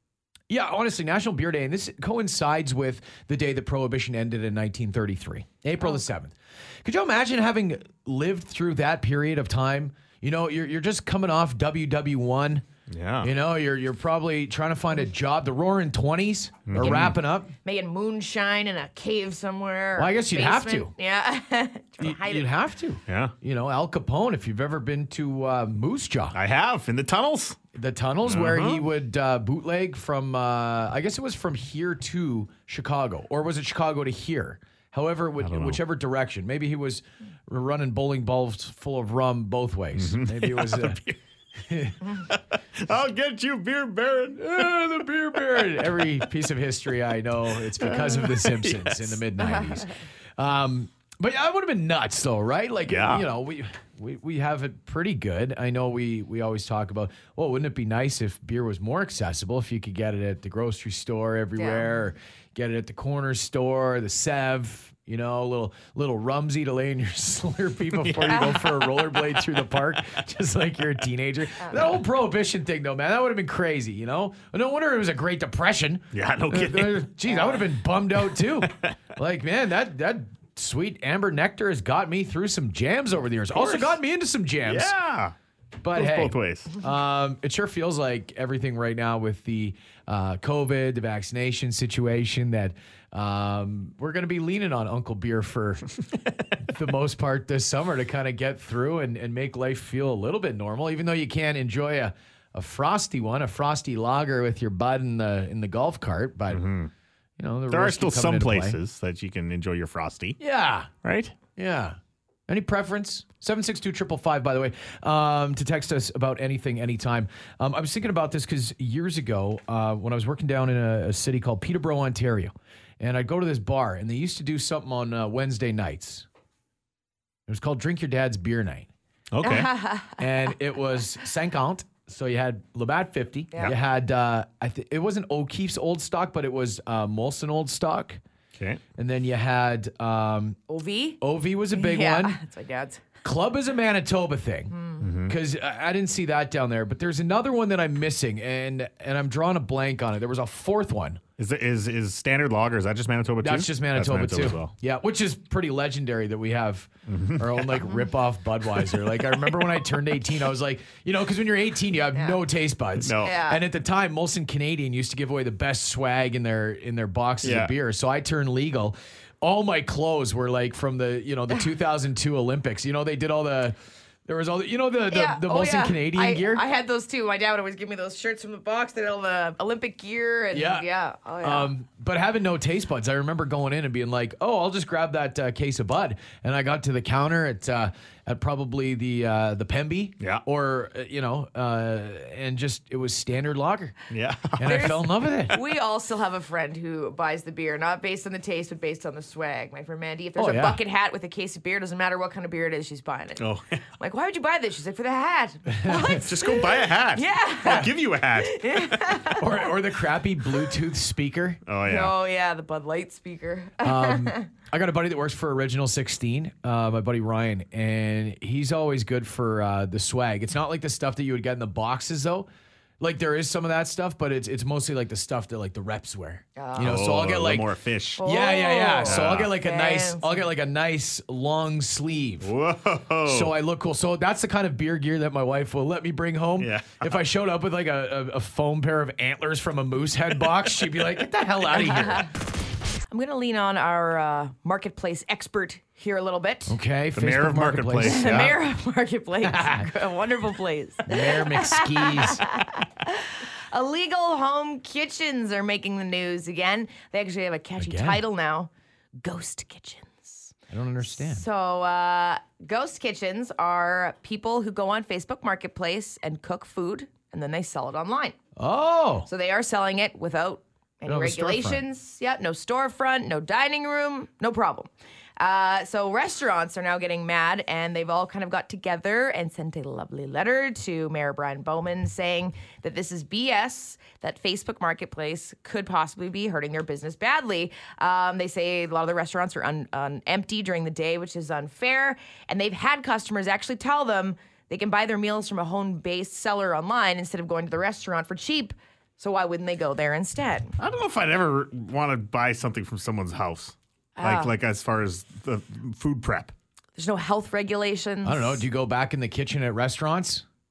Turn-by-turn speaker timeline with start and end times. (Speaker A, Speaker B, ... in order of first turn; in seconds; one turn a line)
Speaker A: 0.5-12.7
Speaker B: 12.9-13.3
Speaker A: 13.2-17.5
Speaker B: 16.7-17.2
Speaker C: 17.6-22.5
Speaker A: 20.0-20.9
Speaker A: 22.0-26.4
Speaker B: 23.1-23.3
Speaker B: 26.3-27.6
Speaker A: 27.8-41.0
Speaker B: 28.2-28.8
Speaker B: 35.4-35.8
Speaker B: 40.0-41.2
Speaker A: 41.6-42.1
Speaker B: 42.3-44.8
Speaker A: 44.4-84.9
Speaker B: 45.5-46.1
Speaker B: 47.8-49.2
Speaker B: 52.9-53.2
Speaker C: 61.6-62.0
Speaker B: 68.0-69.1
Speaker C: 68.3-68.5
Speaker B: 76.1-77.1
Speaker B: 83.5-84.0
Speaker B: 84.7-85.3
Speaker A: 85.8-95.9
Speaker B: 85.9-86.7
Speaker A: 96.6-106.7
Speaker B: 106.5-106.9
Speaker A: 107.4-108.8
Speaker B: 107.7-110.4
Speaker A: 110.4-110.9
Speaker B: 111.0-111.3
Speaker A: 111.6-112.0
Speaker A: 112.5-126.3
Speaker A: 127.5-128.9
Speaker B: 129.3-129.7
Speaker C: 129.4-130.2
Speaker A: 130.2-138.2
Speaker A: 139.0-140.6
Speaker C: 140.7-141.2
Speaker A: 141.2-142.4
Speaker C: 141.7-143.0
Speaker A: 143.2-144.7
Speaker C: 144.7-145.0
Speaker B: 145.0-145.3
Speaker A: 145.2-151.2
Speaker B: 151.4-154.7
Speaker A: 153.4-176.7
Speaker B: 157.1-157.8
Speaker B: 163.0-163.4
Speaker C: 163.2-163.6
Speaker B: 167.4-167.7
Speaker C: 175.1-181.7
Speaker A: 180.5-180.9
Speaker A: 181.4-193.9
Speaker B: 194.1-195.0
Speaker A: 194.6-195.6
Speaker C: 194.7-203.4
Speaker A: 200.4-200.8
Speaker B: 203.4-203.8
Speaker C: 204.0-207.9
Speaker A: 205.7-206.2
Speaker B: 206.0-209.2
Speaker C: 208.4-209.7
Speaker A: 209.4-211.6
Speaker B: 211.7-212.1
Speaker C: 211.9-214.5
Speaker A: 213.8-222.5
Speaker A: 223.0-232.5
Speaker C: 226.6-227.0
Speaker B: 226.8-228.2
Speaker C: 228.2-230.4
Speaker B: 229.1-229.5
Speaker B: 232.4-233.5
Speaker A: 233.3-242.3
Speaker B: 236.6-237.2
Speaker C: 243.1-246.8
Speaker A: 246.7-248.6
Speaker B: 247.2-248.5
Speaker C: 248.0-268.4
Speaker A: 249.4-249.9
Speaker A: 251.1-252.5
Speaker A: 257.8-258.2
Speaker A: 260.7-261.4
Speaker A: 268.6-269.3
Speaker C: 269.3-300.7
Speaker A: 271.1-271.8
Speaker B: 300.8-306.5
Speaker C: 304.2-304.5
Speaker C: 307.0-308.6
Speaker A: 308.2-310.4